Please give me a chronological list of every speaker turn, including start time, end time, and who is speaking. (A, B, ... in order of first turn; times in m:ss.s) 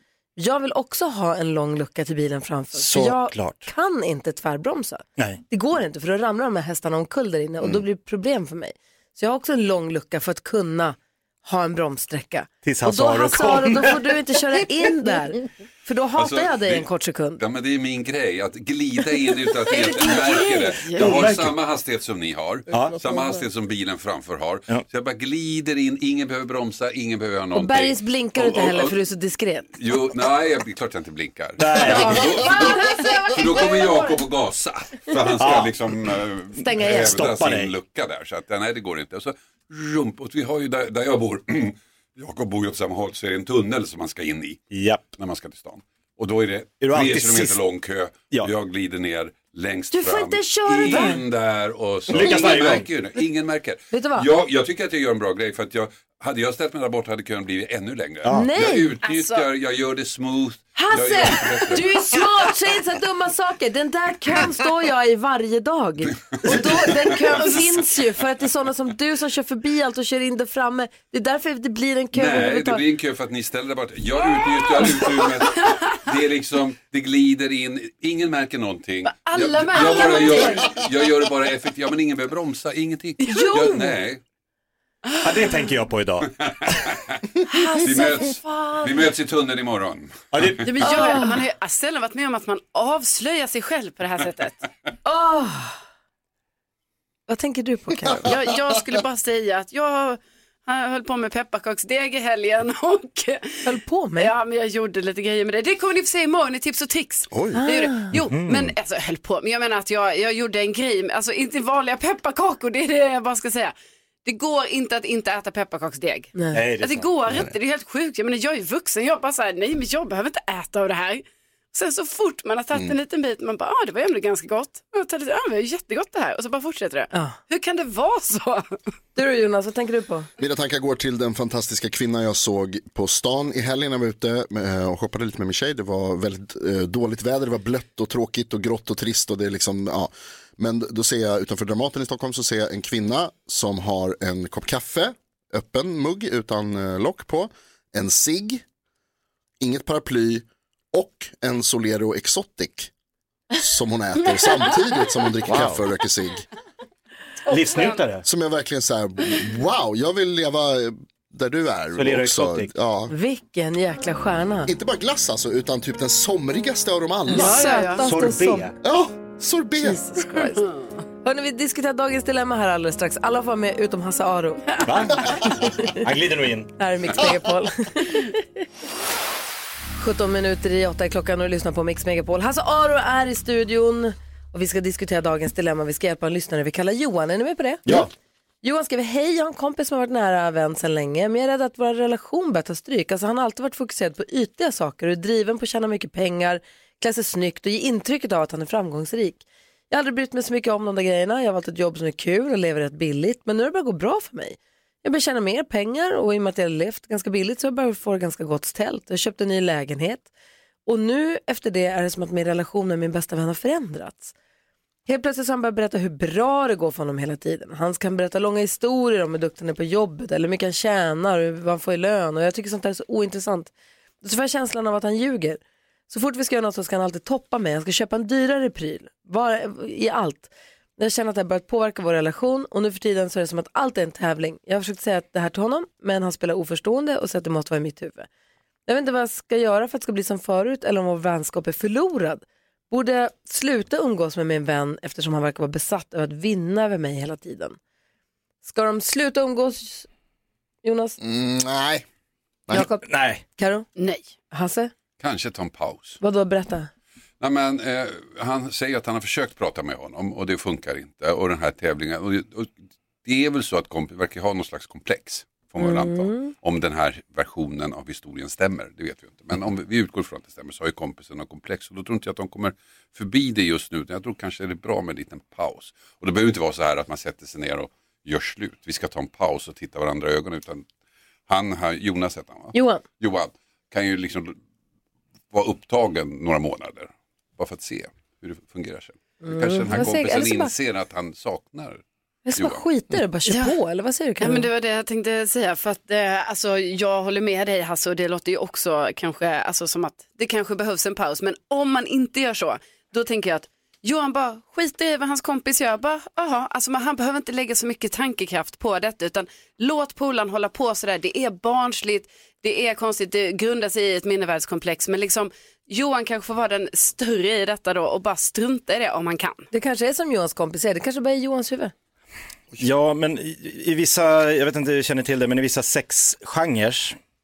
0:00.4-0:17.4 A
0:02.8-0:03.7 B
0:12.6-0:14.1 B
0:16.2-0:16.9 C
0:17.4-0:29.0 C
0:19.8-0:21.0 A
0:19.8-0:21.2 D
0:21.0-0:21.6 B
0:22.7-0:23.1 B
0:27.5-0:29.7 A
0:29.7-1:02.0 C
0:31.6-0:32.5 B
0:31.8-0:34.2 A
0:35.3-0:35.9 B
0:36.6-0:37.2 A
0:36.8-0:37.8 B
0:44.7-0:45.1 B
0:46.8-0:47.6 B
0:49.9-0:51.2 A
0:52.1-0:52.9 B
0:53.9-0:54.3 A
0:58.2-0:58.6 B
0:58.3-0:59.0 A
0:59.0-0:59.5 D
1:00.8-1:12.9 A
1:06.4-1:07.4 C
1:12.1-1:24.2 C
1:19.0-1:20.8 D
1:19.9-1:20.6 A
1:23.2-1:24.0 A
1:25.2-1:26.7 B
1:26.4-1:27.1 C
1:27.5-1:29.1 A
1:27.8-1:30.5 C
1:30.3-1:31.3 B
1:30.6-1:34.6 D
1:30.8-1:31.4 A
1:35.0-1:35.8 A
1:37.3-1:38.3 A
1:38.2-1:43.6 D
1:43.6-1:44.3 A
1:44.2-1:53.7 D
1:47.3-1:47.6 E
1:47.5-1:48.1 A
1:48.1-1:48.7 B
1:54.2-2:08.8 D
1:56.5-1:57.1 B
2:07.1-2:07.4 A
2:09.2-2:10.3 A
2:10.4-2:28.6 E
2:29.6-2:32.9 E
2:33.6-2:36.4 E
2:35.5-2:35.8 B
2:37.5-2:38.2 B
2:38.2-2:43.1 E
2:42.0-2:42.7 B
2:43.1-2:44.7 A
2:44.7-2:47.7 E
2:47.3-2:48.7 A
2:47.4-2:48.1 D
2:48.0-2:48.8 B
2:48.8-2:50.0 E
2:49.8-2:50.7 A
2:51.2-2:55.9 A
2:54.8-2:56.7 B
2:56.8-2:58.4 A
3:00.0-3:08.1 A
3:07.8-3:08.1 B
3:08.6-3:30.3 A
3:30.9-3:34.3 A
3:35.1-3:58.3 A
3:58.9-4:07.8 A
4:08.6-4:10.1 A
4:10.8-4:11.2 A
4:11.2-4:12.0 E
4:12.7-4:13.9 A
4:13.0-4:13.4 B
4:14.0-4:14.3 D
4:14.5-4:14.9 A
4:15.2-4:16.2 C
4:16.2-4:16.9 A
4:17.4-4:22.7 C
4:23.2-4:40.9 C
4:25.8-4:26.5 A
4:41.5-4:44.6 C
4:42.7-4:43.0 A
4:45.5-4:52.0 C
4:49.4-4:50.8 A
4:52.5-4:54.7 A
4:52.6-4:52.8 C
4:53.5-4:53.8 D
4:54.4-5:19.6 D
5:19.7-5:21.9 A
5:22.8-5:27.2 B